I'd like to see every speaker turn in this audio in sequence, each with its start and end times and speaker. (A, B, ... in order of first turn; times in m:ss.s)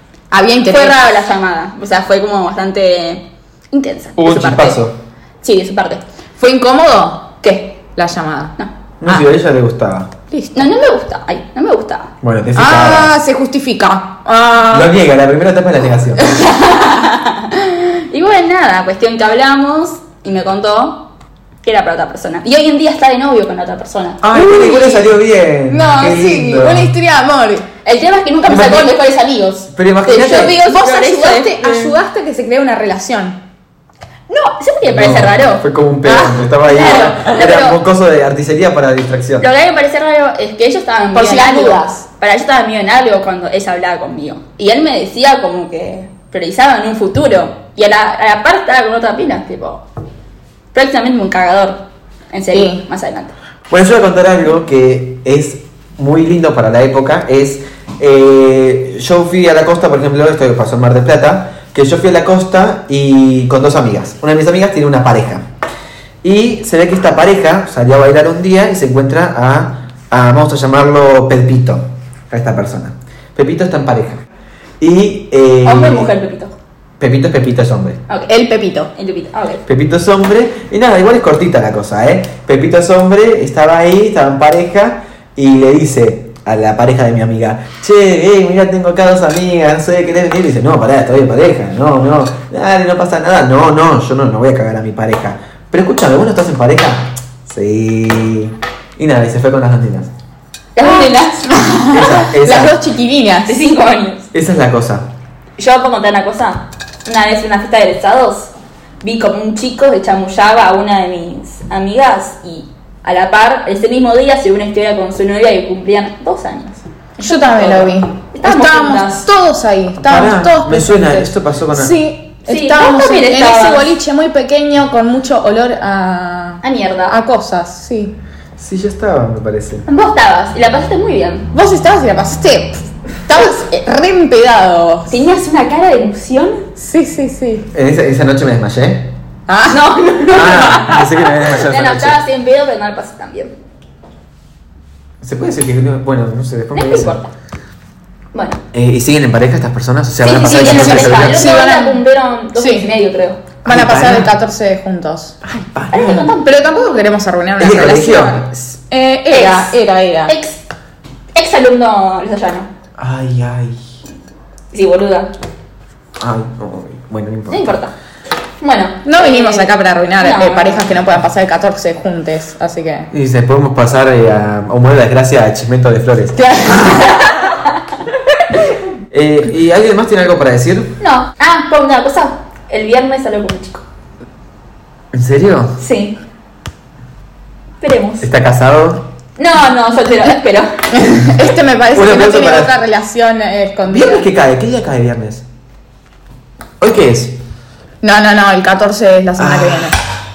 0:00.3-0:01.1 A
0:00.6-0:04.9 B
0:04.2-0:05.0 C
0:05.4-0:06.0 B
0:06.4-0:07.3 A
0:07.4-0:07.8 B
0:07.9-0:08.5 A
0:09.0-0:10.1 C
0:10.3-0:10.6 A
0:10.5-0:12.1 B
0:12.2-0:13.1 C
0:12.5-0:14.9 A
0:14.7-0:16.3 C
0:16.2-0:16.7 A
0:16.5-0:21.1 B
0:21.6-0:25.1 B
0:24.2-0:26.9 C
0:25.7-0:27.7 A
0:27.8-0:31.9 B
0:28.4-0:28.9 C
0:29.7-0:30.5 C
0:30.2-0:33.4 A
0:34.3-0:35.6 B
0:34.8-0:39.5 C
0:36.0-0:37.2 A
0:36.7-0:37.8 B
0:39.4-0:49.8 B
0:41.1-0:42.0 A
0:50.7-0:53.3 B
0:52.5-0:52.8 A
0:53.7-1:05.4 C
1:06.2-1:14.2 C
1:14.8-1:16.1 C
1:15.6-1:16.5 B
1:17.0-1:18.0 C
1:18.3-1:18.9 A
1:18.9-1:19.6 B
1:19.6-1:40.1 C
1:40.8-1:41.5 B
1:40.8-1:43.6 A
1:41.9-1:42.8 C
1:43.5-1:44.3 B
1:44.3-1:45.1 C
1:45.6-1:48.5 B
1:49.0-1:59.3 B
1:57.2-2:08.1 A
2:00.0-2:02.0 C
2:02.4-2:04.0 B
2:06.6-2:07.2 B
2:08.6-2:09.8 C
2:09.8-2:11.5 B
2:11.5-2:15.2 A
2:15.1-2:16.6 B
2:16.8-2:17.7 A
2:17.7-2:19.1 C
2:19.5-2:19.8 A
2:19.7-2:23.5 B
2:20.3-2:22.2 C
2:25.2-2:27.2 C
2:26.7-2:27.3 B
2:28.3-2:28.6 B
2:28.7-2:31.5 C
2:30.2-2:33.5 B
2:30.3-2:32.0 A
2:32.6-2:32.9 A
2:33.6-2:34.3 C
2:33.6-2:35.4 A
2:35.4-2:36.3 C
2:35.9-2:36.6 B
2:36.4-2:40.3 A
2:37.6-2:38.4 C
2:39.3-2:39.7 B
2:40.2-2:40.6 B
2:41.3-2:42.7 B
2:43.0-2:43.8 C
2:44.7-2:45.3 B
2:46.2-2:47.8 C
2:47.5-2:47.9 B
2:48.6-2:50.9 B
2:49.0-2:53.1 A
2:53.1-2:56.5 C
2:56.4-2:57.3 A
2:56.8-2:57.6 B
2:59.1-3:00.9 C
3:01.0-3:03.8 B
3:05.1-3:05.8 C
3:05.8-3:06.2 B
3:07.8-3:08.3 B
3:08.2-3:09.0 C
3:09.4-3:10.7 B
3:10.9-3:14.3 A
3:11.9-3:12.7 C
3:13.8-3:15.4 C
3:16.8-3:17.4 C
3:18.0-3:20.0 A
3:19.4-3:20.0 C